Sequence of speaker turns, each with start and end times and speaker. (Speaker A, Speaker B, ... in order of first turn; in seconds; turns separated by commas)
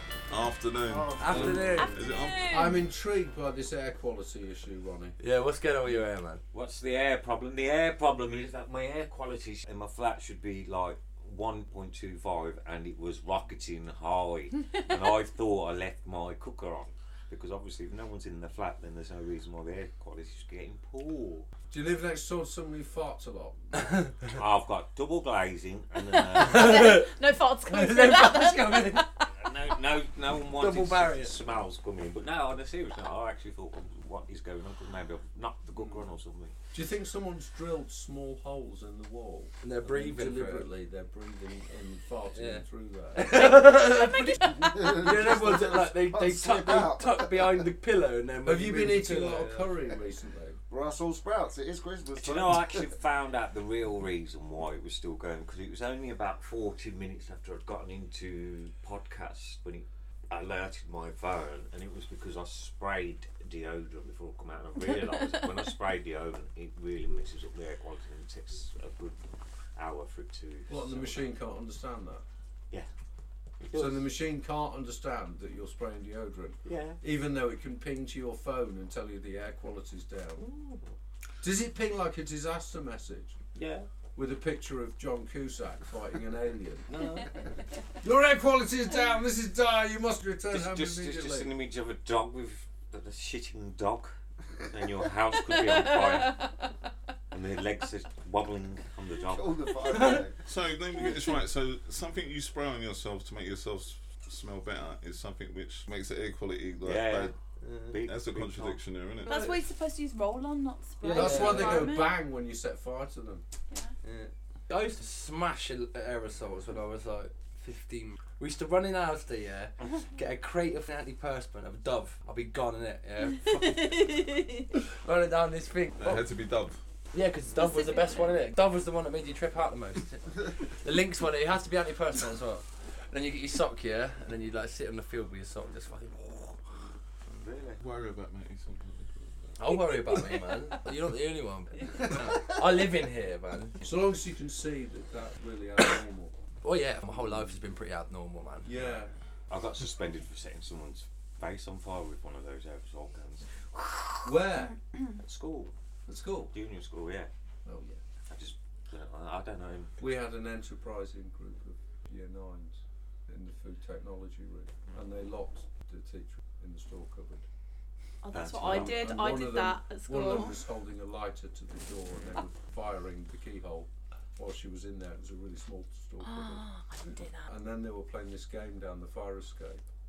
Speaker A: 0.3-2.5, Speaker B: 0.8-2.1, Speaker C: 1.2-2.0, Speaker D: 1.3-1.7, Speaker E: 1.7-2.8, Speaker D: 2.5-5.2, Speaker C: 5.2-6.4, Speaker F: 6.5-21.5, Speaker D: 21.7-23.9, Speaker F: 24.2-27.0, Speaker C: 26.4-27.1, Speaker E: 26.4-29.3, Speaker C: 27.7-29.1, Speaker F: 29.3-36.5, Speaker C: 30.6-31.4, Speaker D: 36.7-43.6, Speaker C: 39.6-40.7, Speaker C: 42.4-49.7, Speaker E: 43.5-44.8, Speaker B: 44.4-47.6, Speaker D: 48.5-50.6, Speaker B: 50.7-52.9, Speaker F: 52.2-69.2, Speaker F: 69.8-71.3, Speaker D: 70.7-72.2, Speaker F: 73.6-74.1, Speaker D: 73.7-80.4, Speaker F: 76.7-77.0, Speaker F: 80.4-80.9, Speaker D: 81.4-83.4, Speaker F: 83.5-83.9, Speaker D: 84.2-86.9, Speaker F: 86.9-87.5, Speaker D: 88.0-91.5, Speaker F: 90.5-96.5, Speaker E: 95.5-96.5, Speaker F: 97.3-100.1, Speaker B: 99.3-100.4, Speaker C: 99.9-100.2, Speaker A: 100.5-107.3, Speaker E: 101.1-101.3, Speaker F: 106.8-107.3, Speaker C: 107.6-108.0, Speaker F: 107.9-108.8, Speaker A: 108.0-109.4, Speaker E: 109.2-112.2, Speaker C: 109.3-109.6, Speaker C: 111.0-112.0, Speaker D: 111.1-113.5, Speaker C: 114.0-124.2, Speaker E: 123.4-124.7, Speaker C: 124.8-126.3, Speaker A: 126.0-126.8, Speaker C: 127.1-136.6, Speaker E: 127.5-128.4, Speaker F: 137.3-137.8, Speaker A: 137.8-139.8, Speaker C: 139.6-143.8, Speaker D: 143.8-146.3, Speaker C: 146.6-148.7, Speaker D: 148.7-149.1, Speaker F: 149.5-154.2, Speaker D: 154.2-154.8, Speaker F: 155.1-155.7, Speaker D: 156.1-156.5, Speaker F: 156.5-157.3, Speaker D: 157.7-158.0, Speaker F: 158.3-160.1, Speaker D: 160.0-167.4, Speaker E: 168.2-170.6, Speaker F: 168.3-169.3, Speaker D: 168.6-176.7, Speaker E: 176.2-177.5, Speaker D: 177.5-179.8